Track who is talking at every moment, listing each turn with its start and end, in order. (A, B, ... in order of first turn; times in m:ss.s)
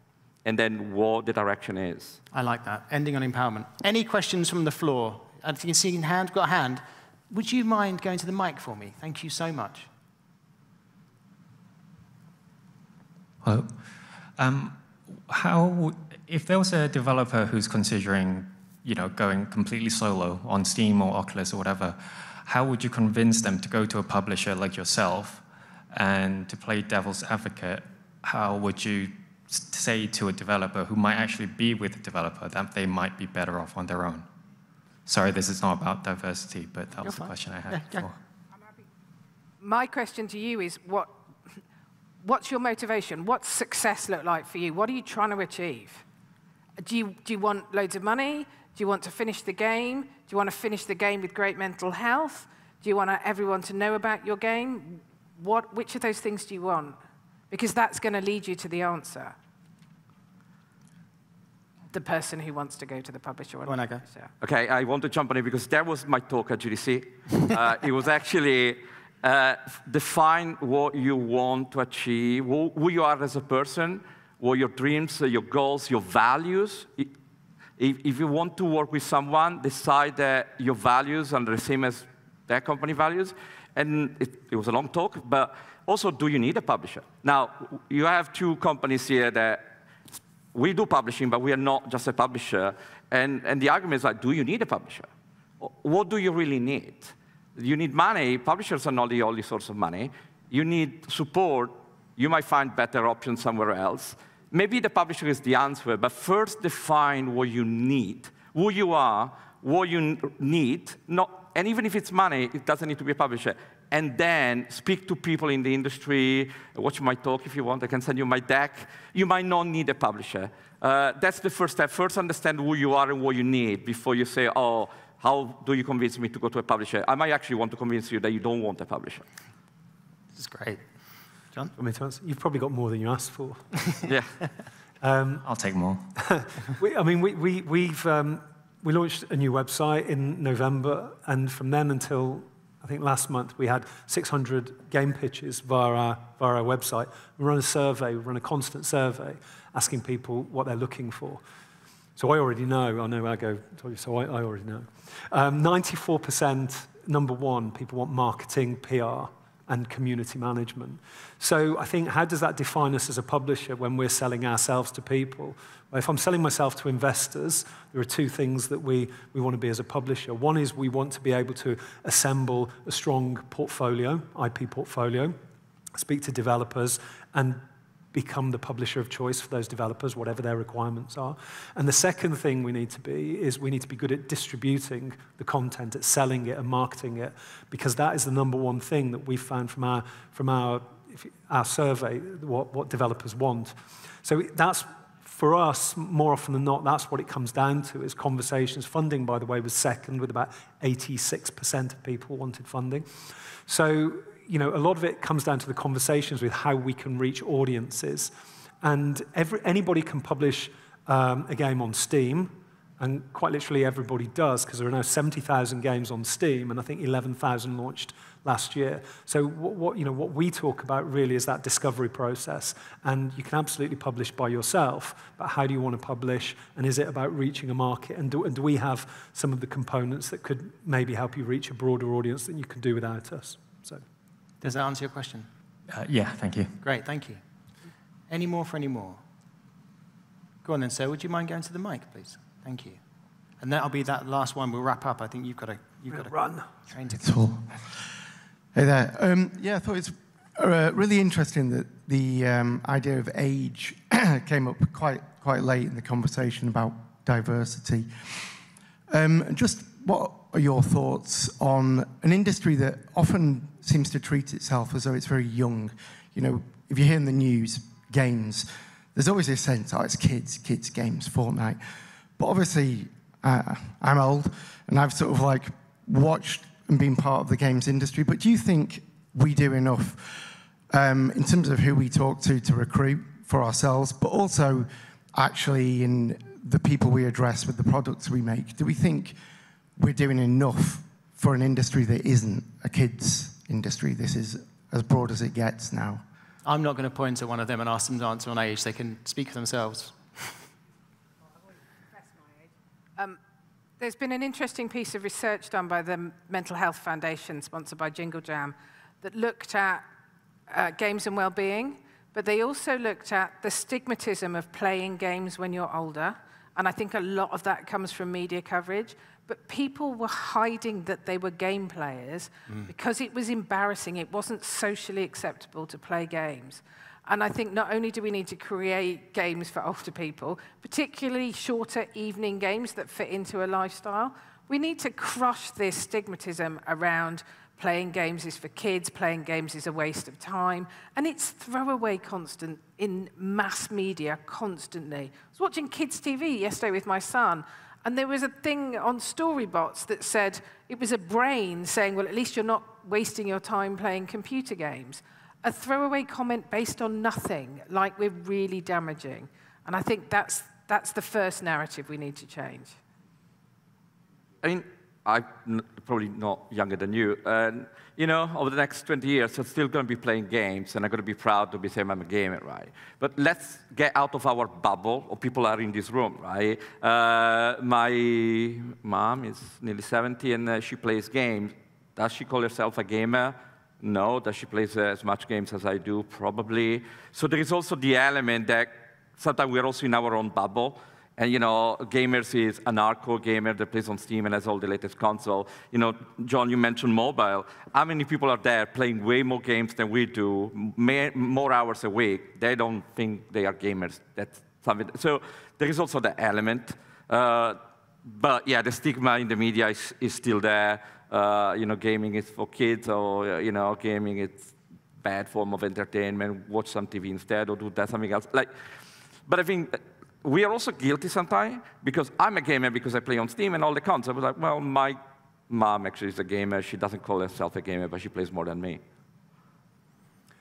0:00.4-0:02.2 A
0:02.3-0:09.9 B
0:13.4-0:13.8 C
0:14.4-0:14.8 C
0:15.3-0:34.3 C
0:35.1-0:38.2 C
0:37.0-0:38.1 B
0:39.6-0:41.1 D
0:42.2-0:46.0 D
0:46.8-0:57.0 D
0:57.5-0:59.4 D
1:01.9-1:04.3 D
1:03.7-1:04.0 B
1:04.4-1:17.1 A
1:17.8-1:29.6 A
1:30.5-1:35.1 A
1:35.6-2:09.2 A
2:10.4-2:10.8 B
2:11.8-2:13.6 E
2:14.1-2:14.3 A
2:15.0-2:15.4 E
2:15.4-2:16.1 C
2:16.2-2:31.4 E
2:32.2-2:55.4 E
2:56.0-2:57.6 E
2:58.1-3:23.1 E
3:23.7-3:28.3 E
3:28.8-3:54.0 E
3:54.6-3:55.5 B
3:55.9-3:56.8 C
3:56.8-3:57.4 B
3:58.3-3:59.2 B
4:00.6-4:03.0 B
4:03.6-4:07.4 B
4:06.1-4:06.7 E
4:07.2-4:07.7 F
4:08.7-4:18.5 F
4:19.1-4:31.8 F
4:32.4-4:49.4 F
4:50.0-4:56.2 F
4:56.6-5:00.6 B
5:02.2-5:02.6 D
5:04.0-5:10.0 D
5:10.7-6:03.0 D
6:04.6-6:58.7 A
6:59.5-7:05.2 A
7:05.7-7:09.0 A